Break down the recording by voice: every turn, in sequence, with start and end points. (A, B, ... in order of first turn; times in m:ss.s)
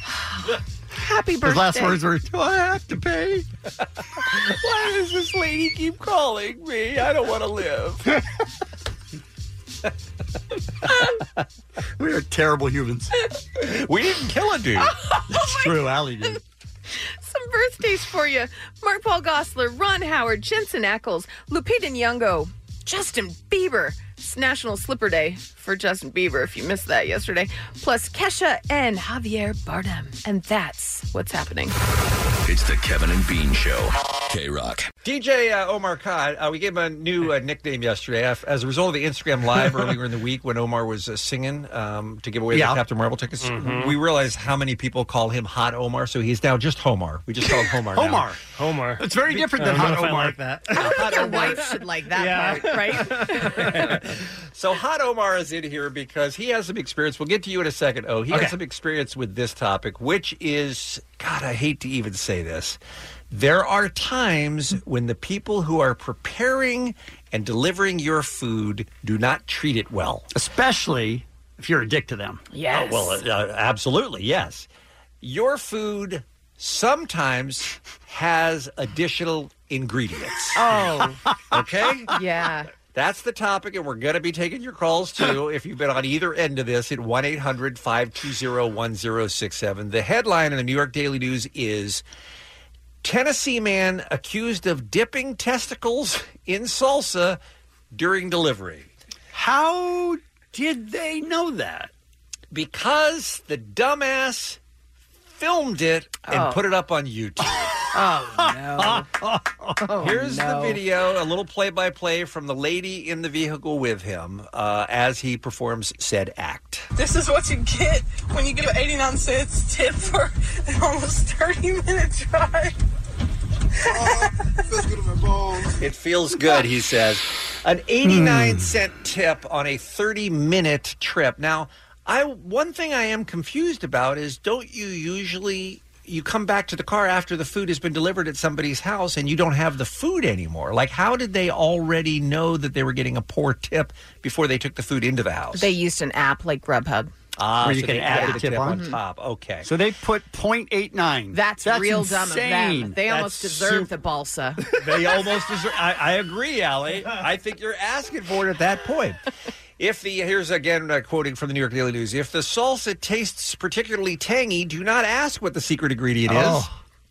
0:01.0-0:02.0 A
0:01.4-0:03.4 B
0:04.2-0:08.0 C
0:12.0-0:13.1 B
0:13.6-0:14.9 C
0:15.0-0:16.3 A
0:15.3-0:16.4 B
0:16.9-0:31.8 A
0:32.4-0:34.9 D
0:35.0-0:48.2 C
0:42.5-0:42.8 B
0:43.4-0:43.9 E
0:47.9-0:48.4 B
0:48.6-0:54.0 E
0:49.0-0:50.4 B
0:50.7-0:53.9 A
0:53.8-1:02.8 C
1:03.3-1:10.2 C
1:10.3-1:12.4 B
1:12.5-1:13.2 A
1:12.7-1:14.7 C
1:15.2-1:20.8 C
1:20.6-1:21.1 A
1:20.7-1:21.9 B
1:21.5-1:22.1 C
1:22.1-1:22.7 A
1:22.9-1:32.0 C
1:33.0-1:37.4 C
1:37.9-1:38.9 C
1:39.3-1:41.9 B
1:42.5-1:44.6 C
1:45.3-1:47.7 C
1:46.3-1:46.6 A
1:47.9-1:49.0 A
1:47.9-1:50.1 B
1:49.8-1:50.8 A
1:50.0-1:56.8 C
1:57.0-2:02.8 F
2:03.8-2:05.6 F
2:05.8-2:25.7 C
2:08.0-2:08.7 B
2:25.5-2:27.1 A
2:27.4-2:29.7 C
2:27.6-2:28.9 B
2:28.1-2:29.0 A
2:29.6-2:33.0 B
2:31.3-2:34.6 A
2:33.1-2:33.8 C
2:34.8-2:39.2 C
2:39.8-2:46.7 C
2:46.3-2:46.7 B